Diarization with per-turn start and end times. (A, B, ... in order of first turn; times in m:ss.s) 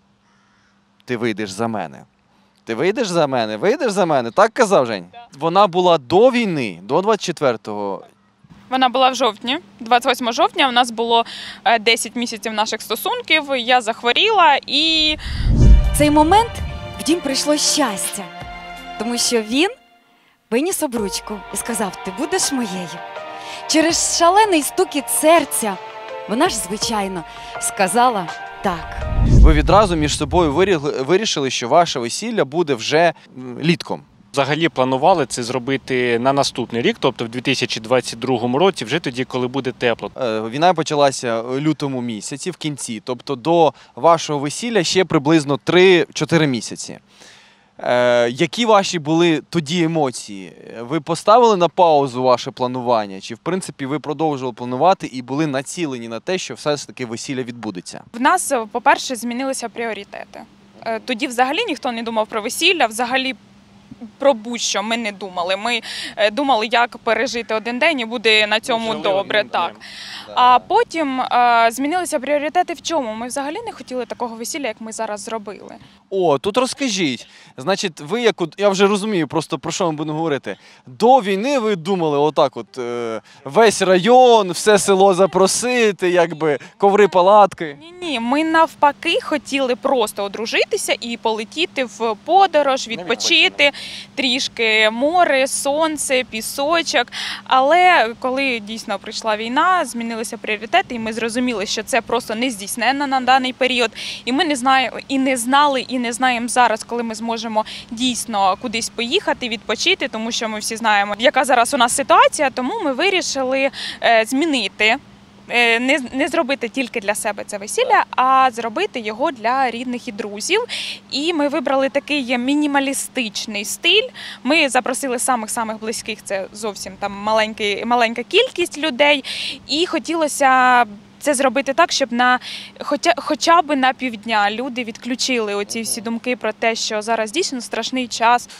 0:01.0-0:02.0 A
0:02.6-0:08.0 A
0:08.7-0:15.2 B
0:15.9-0:18.3 C
0:19.0-0:19.8 C
0:20.5-0:23.0 C
0:23.7-0:29.0 C
0:29.4-0:34.0 A
0:34.3-0:40.1 D
0:40.2-0:47.0 A
0:47.8-0:58.0 A
0:58.1-1:03.4 B
1:04.2-1:09.7 B
1:08.6-1:09.8 D
1:09.0-1:09.3 A
1:10.3-1:15.8 B
1:10.3-1:10.6 A
1:16.1-1:27.8 A
1:27.8-2:18.5 B
1:32.9-1:33.6 D